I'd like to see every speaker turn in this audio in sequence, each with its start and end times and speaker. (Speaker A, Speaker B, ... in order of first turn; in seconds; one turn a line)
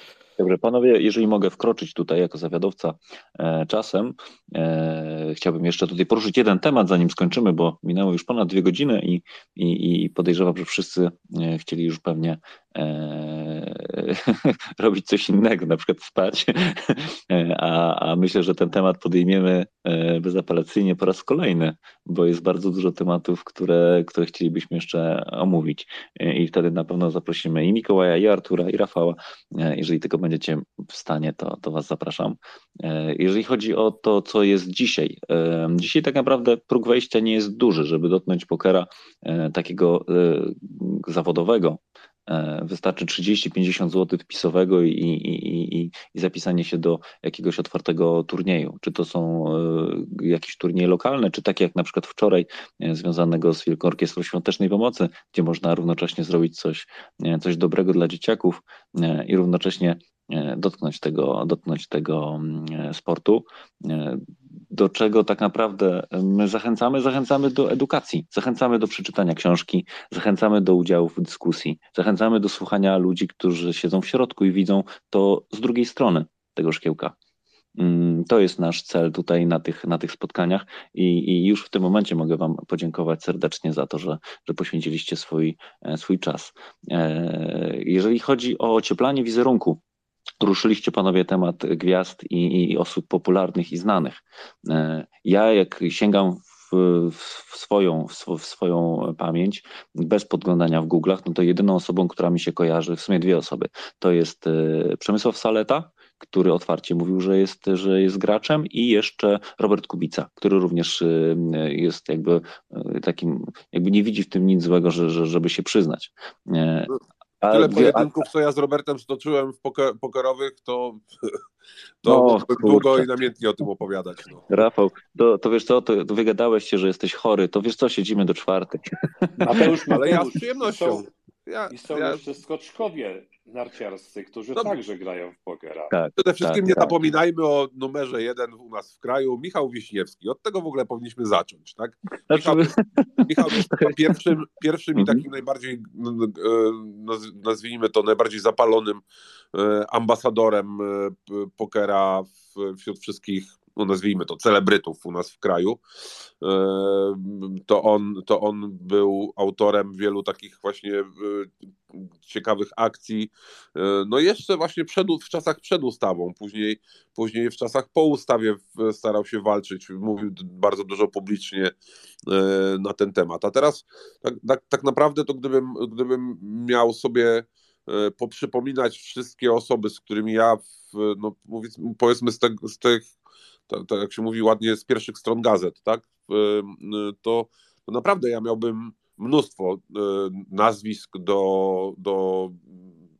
Speaker A: 0.4-77.1
Speaker A: 77.8-89.8
Speaker A: 90.4-118.1
Speaker B: 117.5-121.4
Speaker B: 122.0-124.4
Speaker A: 122.0-123.1
Speaker A: 124.5-128.9
Speaker C: 129.4-131.1
Speaker B: 129.9-132.2
Speaker C: 131.7-135.9
Speaker A: 135.9-136.9
Speaker B: 136.2-142.8
Speaker A: 142.3-143.9
Speaker B: 143.3-149.0
Speaker A: 144.9-145.2
Speaker B: 149.5-155.8
Speaker B: 156.4-171.7
Speaker B: 172.3-183.1
Speaker B: 183.7-192.9